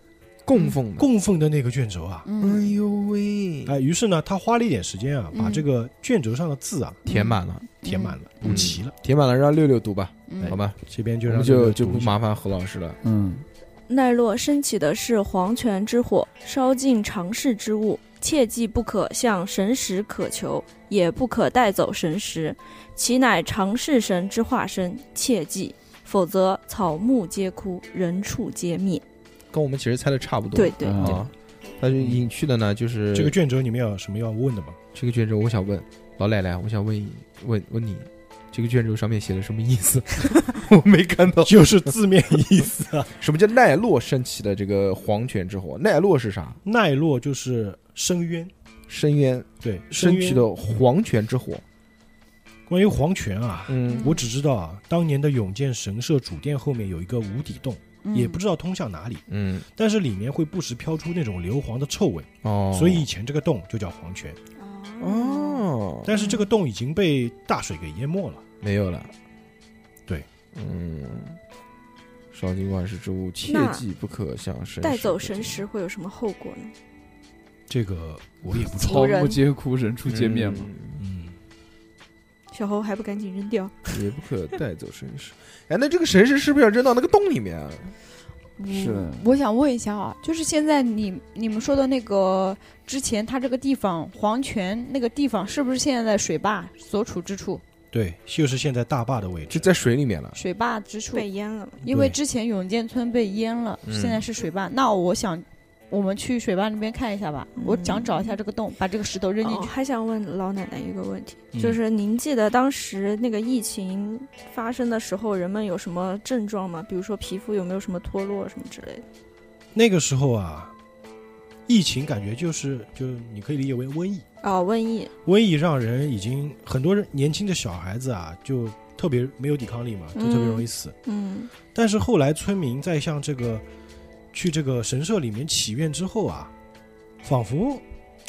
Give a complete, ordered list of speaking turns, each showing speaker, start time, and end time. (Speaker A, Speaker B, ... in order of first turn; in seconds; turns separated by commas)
Speaker A: 0.5-1.1, Speaker B: 1.0-2.3, Speaker C: 2.2-2.7, Speaker A: 2.4-3.7, Speaker B: 3.7-7.0, Speaker C: 5.3-5.6, Speaker A: 7.1-7.7, Speaker C: 7.1-8.6, Speaker B: 7.8-8.9, Speaker A: 8.4-13.0, Speaker C: 10.3-10.6, Speaker B: 10.4-12.2, Speaker D: 13.0-13.4, Speaker E: 13.9-29.0, Speaker A: 29.5-33.4, Speaker E: 30.6-31.2, Speaker D: 30.8-31.2, Speaker B: 33.1-34.8, Speaker A: 34.9-41.8, Speaker B: 41.4-43.1, Speaker A: 43.2-46.6, Speaker B: 46.6-48.5, Speaker A: 48.9-51.6, Speaker B: 49.6-50.5, Speaker B: 52.7-64.4, Speaker A: 53.7-54.2, Speaker C: 53.9-54.2, Speaker C: 58.0-58.4, Speaker A: 59.3-59.6, Speaker A: 62.4-63.1, Speaker E: 64.6-65.7, Speaker A: 65.0-66.1, Speaker B: 66.0-68.5, Speaker C: 66.1-66.4, Speaker A: 68.6-69.1, Speaker A: 70.5-71.4, Speaker A: 72.3-75.6, Speaker E: 73.5-73.8, Speaker E: 74.8-76.7, Speaker B: 77.7-79.2, Speaker D: 78.8-80.7, Speaker E: 78.8-79.4, Speaker A: 80.1-81.0, Speaker B: 81.0-81.4, Speaker E: 82.5-84.0, Speaker A: 83.9-88.0, Speaker C: 88.6-97.6, Speaker D: 88.7-89.2, Speaker B: 97.9-99.7, Speaker A: 99.5-100.4, Speaker C: 100.3-101.3, Speaker E: 101.1-101.8, Speaker C: 101.8-109.7, Speaker B: 101.9-102.2, Speaker A: 103.8-104.2, Speaker E: 107.6-108.4, Speaker E: 109.4-119.0, Speaker B: 119.7-120.7, Speaker B: 121.7-124.3, Speaker E: 124.4-125.1, Speaker B: 125.2-130.9, Speaker E: 130.2-131.5, Speaker B: 131.7-133.6, Speaker B: 134.3-136.5, Speaker B: 137.2-137.8